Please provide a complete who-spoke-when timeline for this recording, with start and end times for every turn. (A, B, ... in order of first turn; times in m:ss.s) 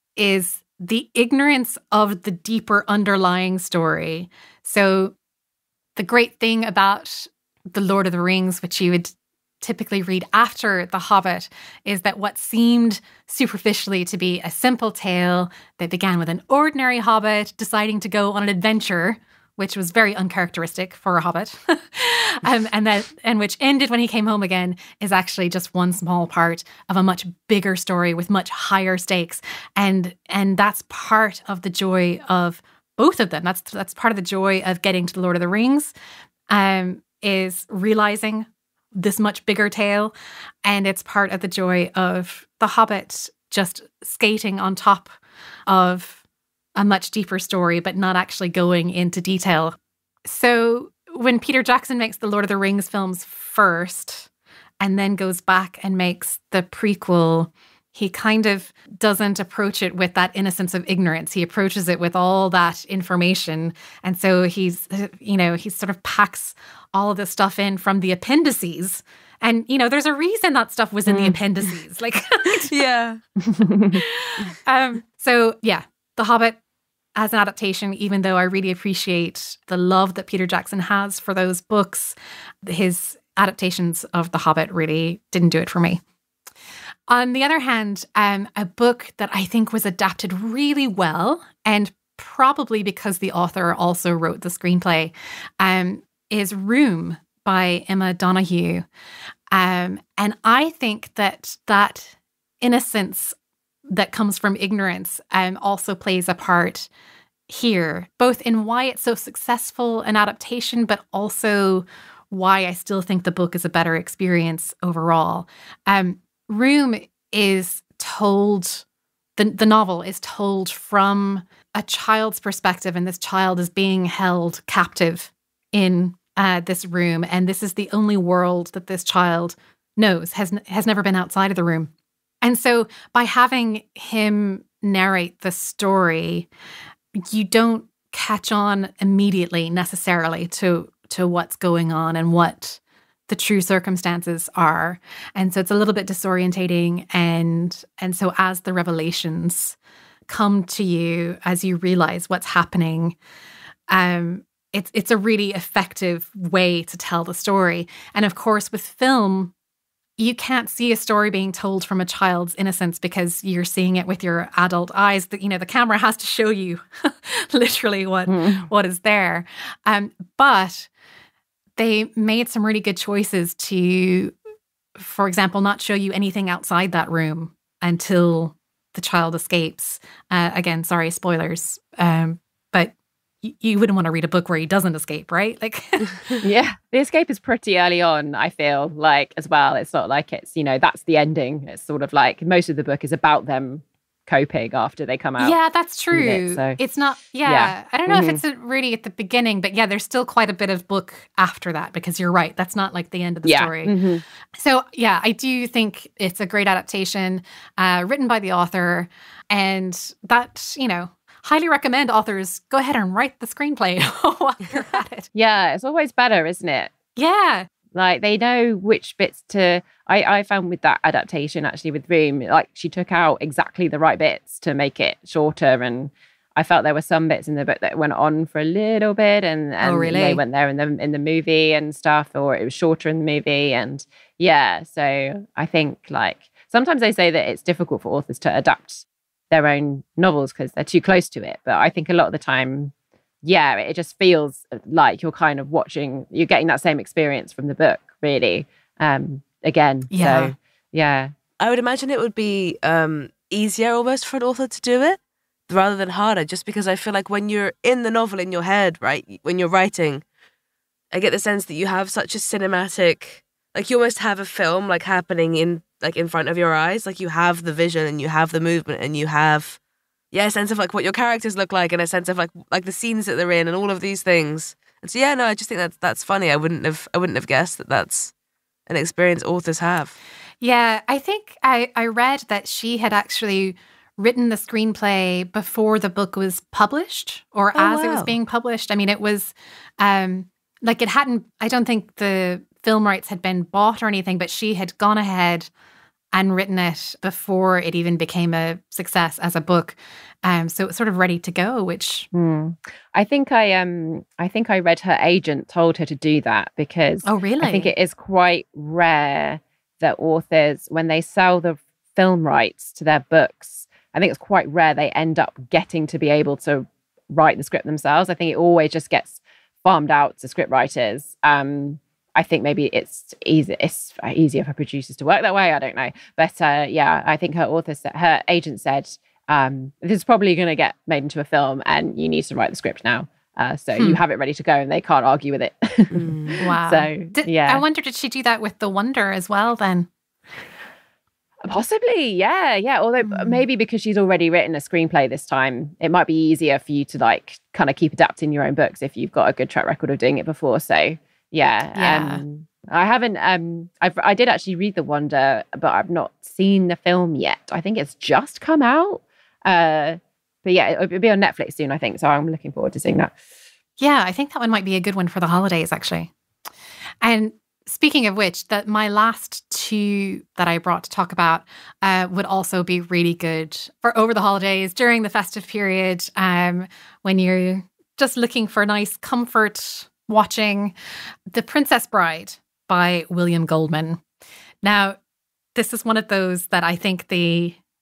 0:00.2-0:05.1 A
0:06.0-0:35.9 A
0:36.5-0:40.1 A
0:40.6-0:45.2 A
0:45.7-0:46.2 A
0:46.8-0:54.3 A
0:54.8-1:12.7 A
1:11.1-1:11.4 B
1:12.6-1:13.2 C
1:13.5-1:14.0 B
1:13.9-1:16.6 A
1:17.2-1:26.0 A
1:27.1-1:38.8 A
1:39.5-1:43.3 A
1:43.9-1:46.9 A
1:47.5-1:58.8 A
1:59.4-2:11.9 A
2:12.4-2:16.5 A
2:17.2-2:29.8 A
2:30.3-2:33.2 A
2:33.9-2:39.5 A
2:40.2-2:50.9 A
2:48.3-2:48.6 B
2:51.8-2:54.3 A
2:55.0-3:06.3 A
3:06.4-3:15.6 B
3:15.4-3:23.9 A
3:16.1-3:16.8 B
3:17.4-3:18.4 B
3:23.4-3:24.2 B
3:24.6-3:35.3 A
3:35.3-3:36.9 B
3:37.2-3:37.7 A
3:37.9-4:02.9 B
3:49.8-3:50.4 A
4:03.4-4:11.3 B
4:10.1-4:10.6 A
4:11.6-4:20.2 C
4:21.1-4:29.8 C
4:30.3-4:38.3 C
4:38.9-4:40.1 C
4:40.6-4:55.7 A
4:47.8-4:48.3 C
4:56.3-5:02.3 A
5:02.3-5:37.8 B
5:07.2-5:07.9 A
5:36.1-5:36.6 C
5:36.6-5:40.1 A
5:41.6-6:03.3 B
5:43.2-5:43.6 A
5:51.9-5:52.4 A
6:04.0-6:06.3 A
6:07.2-6:20.9 A
6:21.5-6:24.2 A
6:24.8-6:25.2 A
6:25.8-6:27.8 A